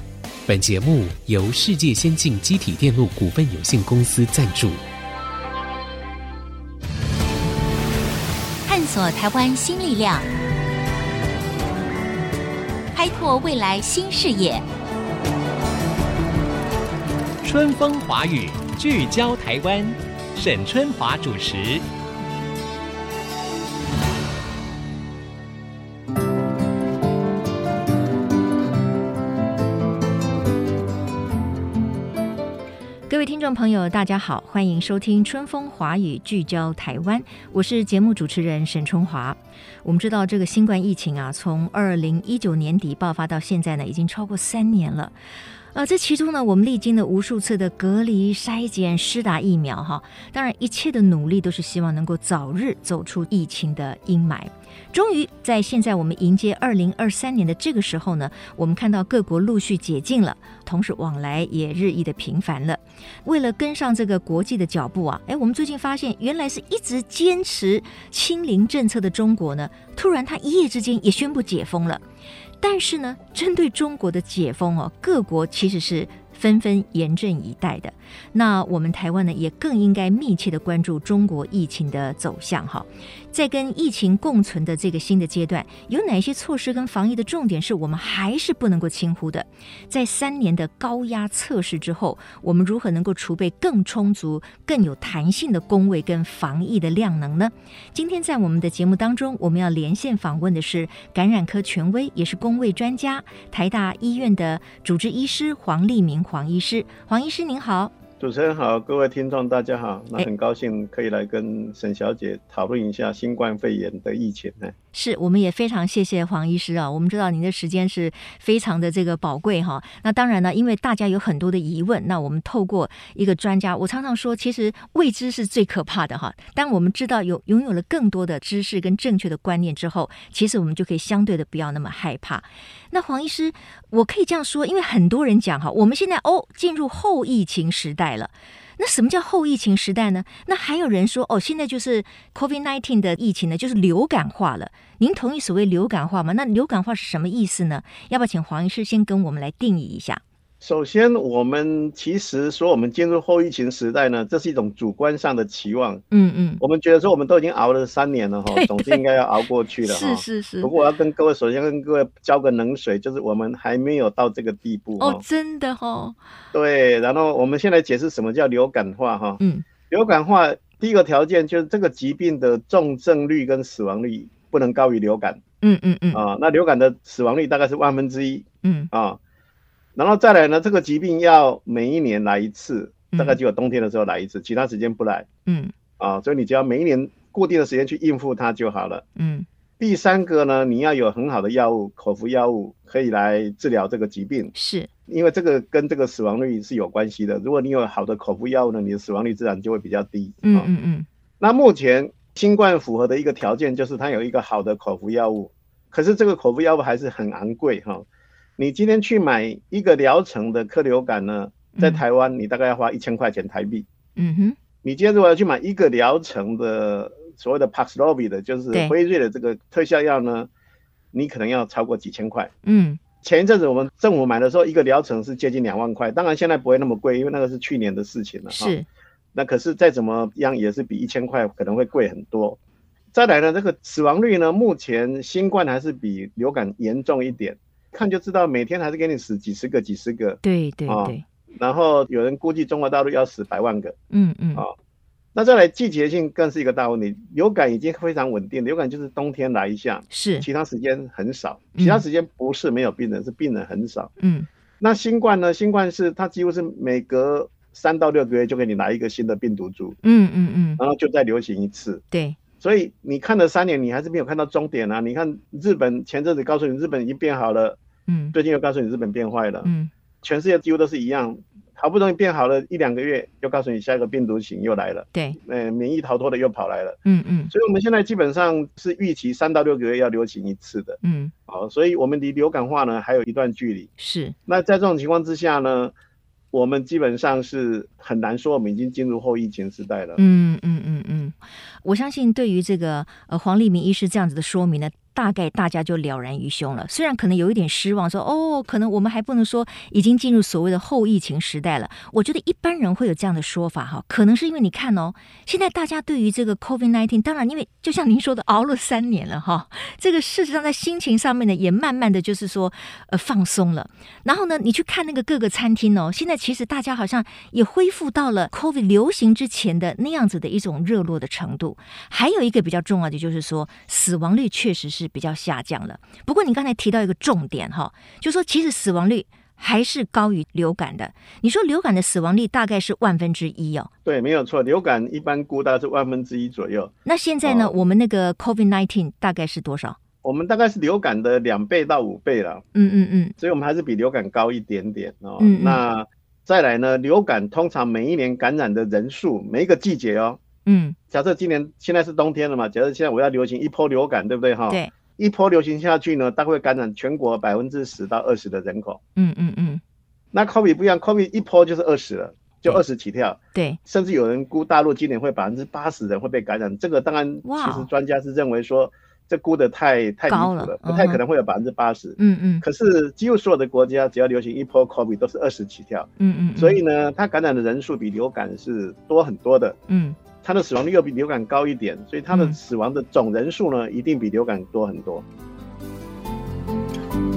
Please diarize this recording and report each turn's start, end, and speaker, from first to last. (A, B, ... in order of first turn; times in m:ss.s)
0:00.5-0:04.8 A
0:08.6-0:10.3 B
0:12.9-0:14.6 B
0:17.4-0:21.8 C
0:33.1-0:45.1 D
0:45.7-1:12.0 D
1:12.6-1:47.9 D
1:48.2-1:54.7 E
1:54.9-2:30.2 D
2:30.6-2:36.0 E
2:36.1-2:36.6 D
2:36.6-2:45.2 E
2:38.5-2:39.0 D
2:39.8-2:40.7 D
2:45.0-2:46.2 D
2:46.5-2:55.4 E
2:49.4-2:49.6 D
2:55.6-2:56.2 D
2:56.1-2:59.2 E
2:58.6-2:58.9 D
3:00.0-3:05.3 E
3:03.1-3:03.4 D
3:05.5-3:05.7 D
3:06.0-3:09.0 E
3:09.2-3:09.5 D
3:09.8-3:14.5 E
3:14.6-3:14.9 D
3:15.1-3:20.7 E
3:20.4-3:21.1 D
3:21.4-3:28.1 E
3:28.6-3:33.9 E
3:31.8-3:32.0 D
3:34.2-3:34.6 D
3:34.8-3:40.5 E
3:41.1-3:42.5 E
3:42.6-3:43.0 D
3:43.2-3:48.8 E
3:48.5-3:48.9 D
3:49.3-3:52.6 E
3:53.1-4:04.0 E
4:00.4-4:01.2 D
4:04.1-4:04.6 D
4:05.3-4:14.1 E
4:10.1-4:10.5 D
4:11.8-4:12.0 D
4:14.2-4:14.5 D
4:14.8-4:20.0 E
4:20.0-4:20.8 D
4:20.8-4:22.0 E
4:22.1-4:22.4 D
4:22.6-4:27.8 E
4:28.1-4:28.3 D
4:28.3-4:29.7 E
4:29.6-4:29.9 D
4:30.2-4:37.0 E
4:37.0-4:37.5 D
4:37.5-4:43.9 E
4:41.0-4:41.3 D
4:44.0-4:44.3 D
4:44.5-4:45.9 E
4:46.5-4:50.2 E
4:50.2-5:33.9 D
5:34.0-5:36.9 E
5:37.0-5:40.0 D
5:37.4-5:37.8 E
5:40.2-5:42.6 E
5:42.7-5:43.3 D
5:43.4-5:50.4 E
5:45.4-5:45.8 D
5:50.6-5:51.0 D
5:51.1-5:59.0 E
5:59.2-5:59.8 D
6:00.3-6:19.8 E
6:07.4-6:07.9 D
6:10.3-6:11.2 D
6:12.2-6:12.6 D
6:16.2-6:16.8 D
6:19.9-6:20.2 D
6:20.4-6:25.2 E
6:22.3-6:22.6 D